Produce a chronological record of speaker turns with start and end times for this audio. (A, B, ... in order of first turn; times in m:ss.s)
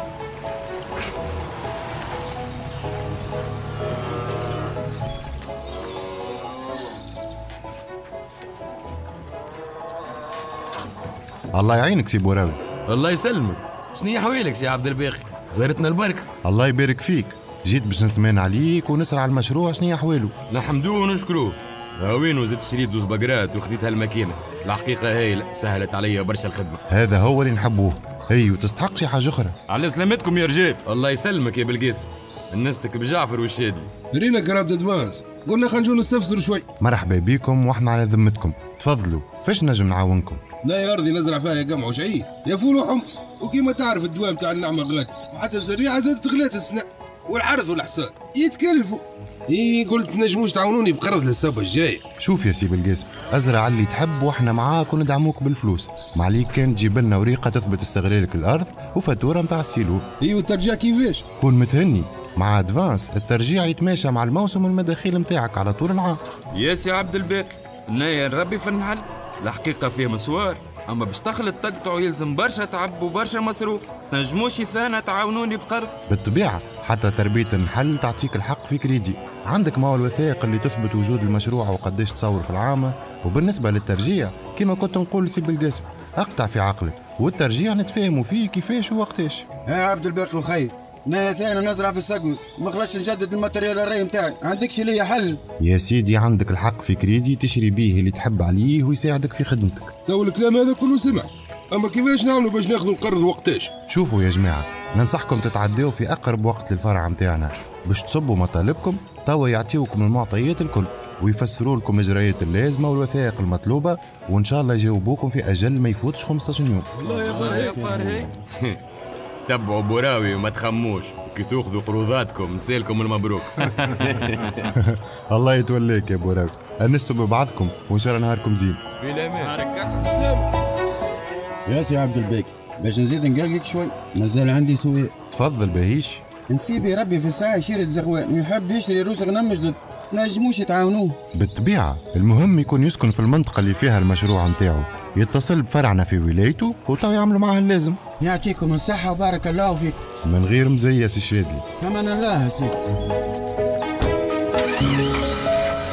0:11.5-0:12.6 A
0:12.9-0:16.3 B
0:16.4-0:20.3 A
0:20.5-0:26.8 B
0:26.9-0:29.6 A
0:29.7-0:33.9 B
0:30.0-0:30.5 C
0:34.1-0:36.6 D
0:36.8-0:40.4 A
0:40.6-0:52.0 D
0:52.2-1:00.0 A
1:00.2-1:01.2 D
1:01.4-1:06.2 A
1:06.6-1:15.7 C
1:16.1-1:29.4 A
1:29.6-1:35.4 E
1:35.6-1:39.9 A
1:40.1-1:43.7 D
1:43.9-1:56.9 A
1:57.0-1:58.3 D
1:57.0-1:58.3 E
1:57.3-1:58.3 C
1:59.5-2:04.7 B
2:04.7-2:08.8 A
2:10.0-2:10.4 D
2:11.6-2:15.1 E
2:15.3-2:16.2 A
2:16.5-2:21.2 E
2:21.3-2:28.0 A
2:28.2-2:30.0 E
2:30.2-2:31.6 A
2:31.8-2:32.8 E